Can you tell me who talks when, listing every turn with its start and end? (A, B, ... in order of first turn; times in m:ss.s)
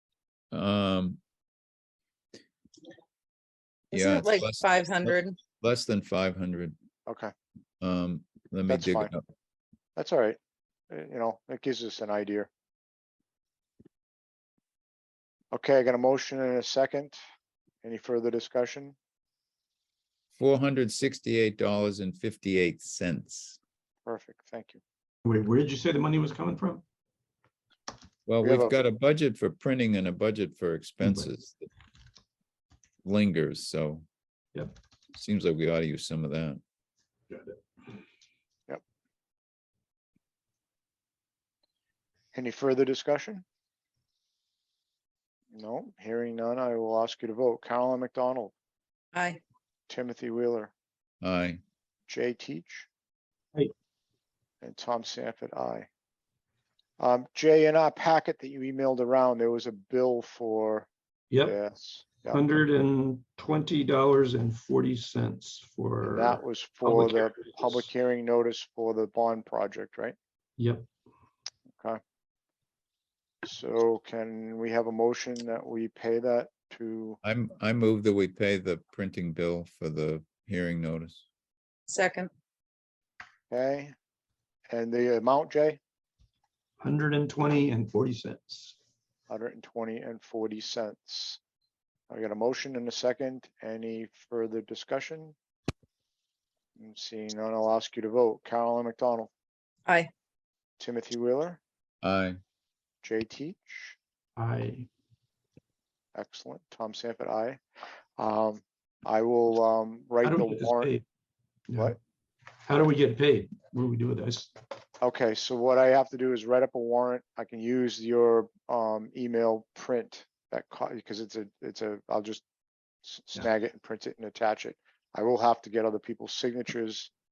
0:00.5-0:01.2 A
0:03.9-0:05.4 B
0:03.9-0:06.7 A
0:07.1-0:07.3 C
0:07.8-0:09.2 A
0:08.7-0:09.1 C
0:10.0-0:10.4 C
0:10.9-0:12.5 C
0:15.5-0:17.2 C
0:17.8-0:19.0 C
0:20.4-0:23.6 A
0:24.0-0:24.8 C
0:25.2-0:26.8 D
0:28.3-0:31.7 A
0:28.4-0:28.7 C
0:33.0-0:34.0 A
0:35.1-0:36.6 A
0:37.3-0:37.6 D
0:42.3-0:43.4 C
0:45.5-0:48.5 C
0:49.1-0:49.4 B
0:49.9-0:50.7 C
0:51.2-0:51.6 A
0:52.1-0:52.9 C
0:54.6-0:55.9 C
0:57.0-1:00.9 C
1:01.3-1:01.6 D
1:01.4-1:02.4 C
1:02.3-1:07.9 D
1:06.0-1:10.2 C
1:10.6-1:10.9 D
1:13.4-1:17.2 C
1:17.2-1:21.2 A
1:21.9-1:22.3 B
1:23.5-1:23.9 C
1:24.7-1:25.8 C
1:26.8-1:28.7 D
1:29.3-1:31.4 C
1:32.1-1:35.4 C
1:36.8-1:39.3 C
1:40.8-1:41.6 C
1:42.0-1:42.4 A
1:43.0-1:44.0 C
1:44.4-1:44.9 D
1:46.1-1:47.6 C
1:48.2-1:50.9 C
1:50.2-1:51.0 D
1:51.7-1:52.0 D
1:52.6-1:54.5 D
1:55.0-2:02.4 C
2:03.0-2:07.1 C